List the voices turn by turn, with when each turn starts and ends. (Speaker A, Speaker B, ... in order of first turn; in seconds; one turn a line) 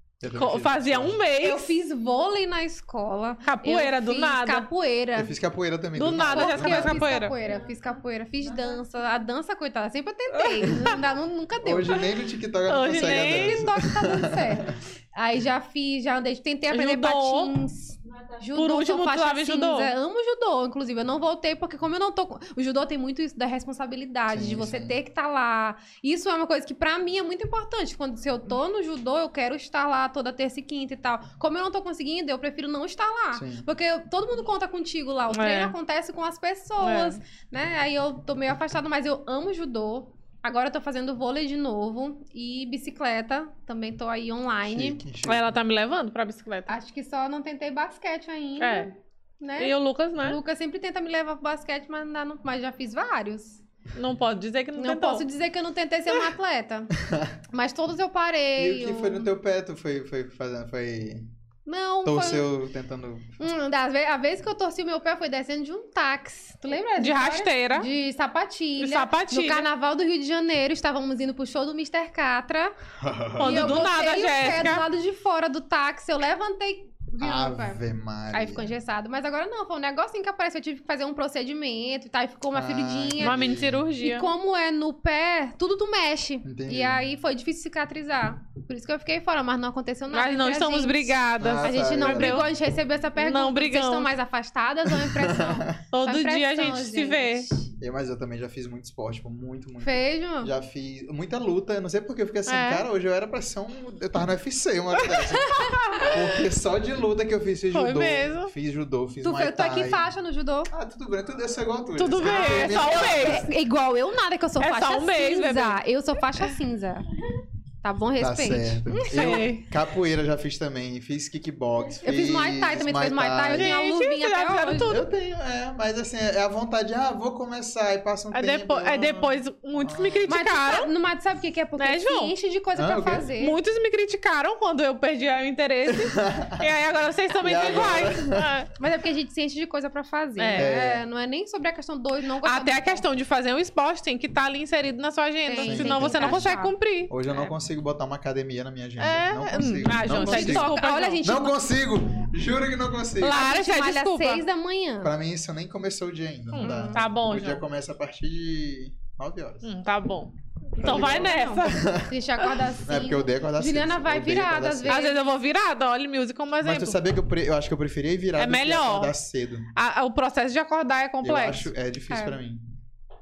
Speaker A: 0.2-1.2
Speaker B: 0.3-1.8
Speaker C: 1.4-5.3
Speaker B: 3.4-4.7
Speaker A: 5.1-7.0
Speaker B: 6.0-7.3
Speaker C: 6.3-12.0
Speaker B: 10.3-11.0
Speaker A: 11.6-14.8
Speaker B: 12.7-13.6
Speaker C: 12.9-45.0
Speaker B: 16.7-17.5
Speaker B: 18.5-19.9
Speaker A: 24.3-24.9
Speaker A: 33.3-33.6
Speaker B: 35.3-35.7
Speaker B: 36.8-37.2
Speaker A: 44.6-45.5
Speaker B: 45.2-46.7
Speaker C: 46.7-53.6
Speaker B: 48.6-48.9
Speaker B: 49.6-50.4
Speaker B: 53.9-55.2
Speaker C: 54.8-56.9
Speaker C: 57.5-59.3
Speaker A: 58.6-61.3
Speaker C: 61.6-62.5
Speaker A: 62.0-63.3
Speaker C: 63.4-72.7
Speaker B: 67.0-67.9
Speaker B: 68.8-69.7
Speaker A: 73.0-73.8
Speaker B: 73.4-74.8
Speaker C: 73.4-77.8
Speaker A: 77.2-78.7
Speaker C: 78.3-83.4
Speaker A: 82.5-83.8
Speaker B: 83.2-84.3
Speaker C: 84.0-97.7
Speaker A: 86.4-87.0
Speaker B: 90.1-92.5
Speaker A: 91.4-92.5
Speaker B: 93.2-94.1
Speaker A: 94.9-95.8
Speaker B: 95.9-97.5
Speaker A: 97.8-110.0
Speaker C: 99.8-100.5
Speaker B: 102.5-102.8
Speaker B: 105.1-106.4
Speaker C: 105.4-106.0
Speaker B: 107.7-108.5
Speaker C: 109.2-110.7
Speaker A: 110.7-113.5
Speaker B: 112.0-113.5
Speaker C: 112.2-117.1
Speaker B: 114.6-115.8
Speaker C: 117.8-119.3
Speaker A: 118.2-123.7
Speaker B: 119.0-119.7
Speaker C: 122.0-124.9
Speaker B: 123.5-125.0
Speaker A: 124.9-130.3
Speaker B: 128.3-130.9
Speaker C: 130.3-133.6
Speaker B: 131.8-132.3
Speaker A: 132.7-133.3
Speaker B: 133.4-138.7
Speaker A: 135.9-136.7
Speaker A: 137.4-138.5
Speaker C: 138.8-143.0
Speaker B: 140.4-140.7
Speaker A: 140.6-141.0
Speaker B: 142.4-147.5
Speaker C: 145.4-146.7
Speaker A: 145.6-146.5
Speaker A: 147.1-153.4
Speaker B: 149.0-151.2
Speaker C: 150.1-151.6
Speaker B: 153.2-154.4
Speaker C: 153.3-155.1
Speaker A: 155.0-159.7
Speaker B: 156.5-157.6
Speaker C: 156.6-157.0
Speaker B: 159.6-161.9
Speaker A: 160.8-162.1
Speaker C: 160.8-165.2
Speaker A: 162.8-165.0
Speaker B: 164.9-167.0
Speaker A: 166.6-169.7
Speaker B: 168.4-169.1
Speaker B: 169.7-171.7
Speaker A: 171.2-172.6
Speaker C: 172.1-172.4